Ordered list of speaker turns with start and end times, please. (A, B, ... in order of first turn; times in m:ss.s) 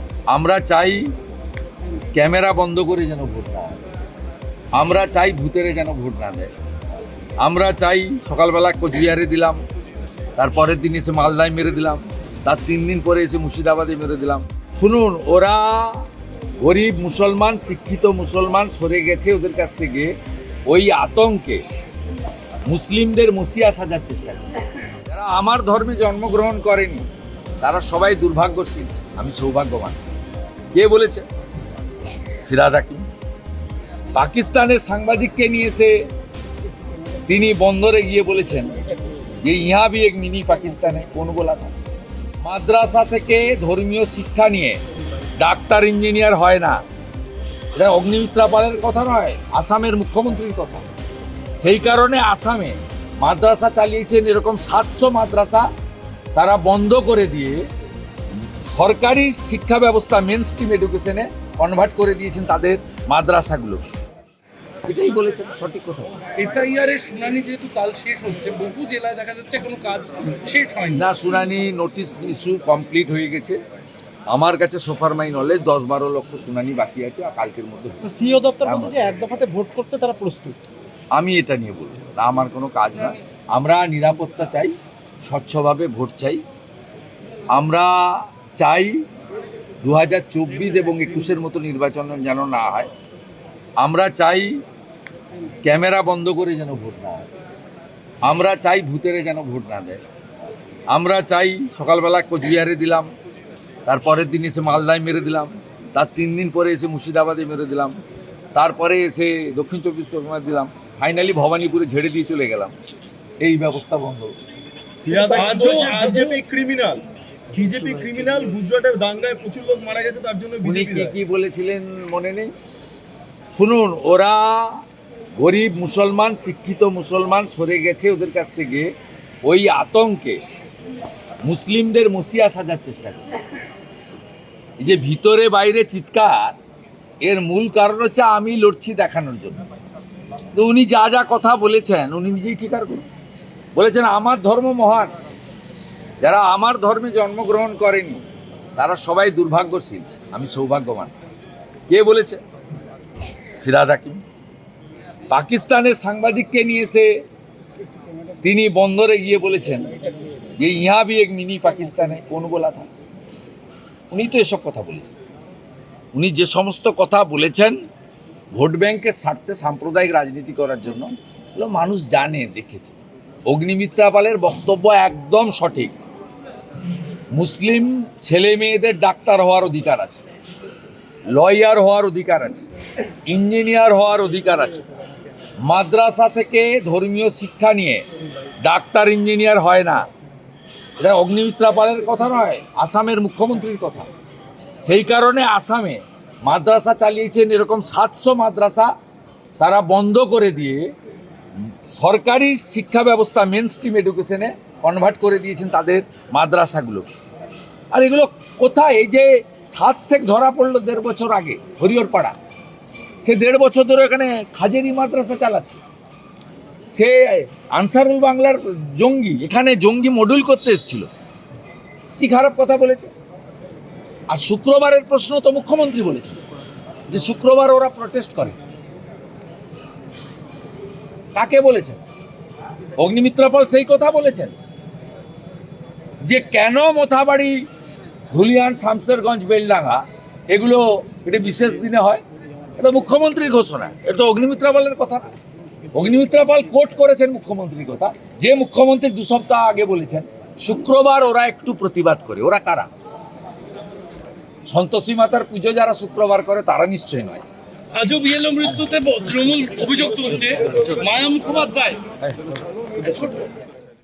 0:00.3-0:01.1 A
0:02.1-0:03.8 A
0:04.7-0:06.5 A
0:07.4-0:09.6 A
0:10.4-0:16.1 A
0:16.6-0:20.1 A
0:20.7-0:21.6 A
0:22.6-0:24.4 A
0:25.0-0:27.1 A
0:27.6-0:30.0 A
0:30.7-0:31.2 A
0:32.5-0:33.1 A
0:34.1-0:35.9 A
0:37.2-0:38.8 A
0:39.4-0:41.7 A
0:42.4-0:44.8 A
0:45.4-0:46.8 A
0:47.8-0:50.9 A
0:51.6-0:55.7 A
0:56.3-0:57.6 A
0:58.6-1:03.9 A
1:04.8-1:06.1 A
1:06.3-1:11.0 B
1:10.9-1:13.6 A
1:14.3-1:18.0 A
1:18.0-1:20.6 C
1:18.6-1:19.0 A
1:21.1-1:24.7 A
1:25.2-1:26.4 A
1:27.5-1:29.0 A
1:29.8-1:32.9 A
1:33.8-1:34.6 A
1:35.6-1:37.3 A
1:38.2-1:40.0 A
1:40.9-1:43.1 A
1:43.9-1:48.0 A
1:48.5-1:52.7 A
1:53.4-1:54.3 A
1:55.0-1:57.0 D
1:55.2-1:56.4 B
1:57.5-2:01.2 D
2:00.6-2:02.5 A
2:03.5-2:04.8 A
2:05.4-2:08.9 A
2:09.4-2:10.4 A
2:11.4-2:13.3 A
2:14.8-2:16.6 A
2:17.2-2:19.6 A
2:20.5-2:23.0 A
2:23.7-2:25.1 A
2:26.2-2:28.2 A
2:28.8-2:31.1 A
2:31.9-2:32.4 A
2:33.6-2:34.2 A
2:35.3-2:37.1 A
2:38.4-2:39.9 A
2:40.5-2:42.9 A
2:44.1-2:45.1 A
2:46.1-2:47.8 A
2:48.5-2:52.9 A
2:53.4-2:55.9 A
2:57.3-3:00.2 A
3:01.3-3:02.6 A
3:03.3-3:04.8 A
3:05.6-3:08.0 A
3:08.6-3:10.0 A
3:11.0-3:14.1 A
3:14.8-3:18.9 A
3:19.6-3:20.9 A
3:21.8-3:27.1 A
3:27.9-3:32.3 A
3:33.2-3:35.8 A
3:36.9-3:41.1 A
3:42.2-3:43.1 A
3:44.3-3:46.4 A
3:47.1-3:48.6 A
3:51.3-3:52.0 A
3:53.0-3:54.5 A
3:56.2-3:57.7 A
3:58.3-4:02.2 A
4:02.8-4:05.3 A
4:05.9-4:12.9 A
4:14.7-4:17.4 A
4:17.9-4:22.0 B
4:20.7-4:21.0 A
4:23.0-4:23.4 B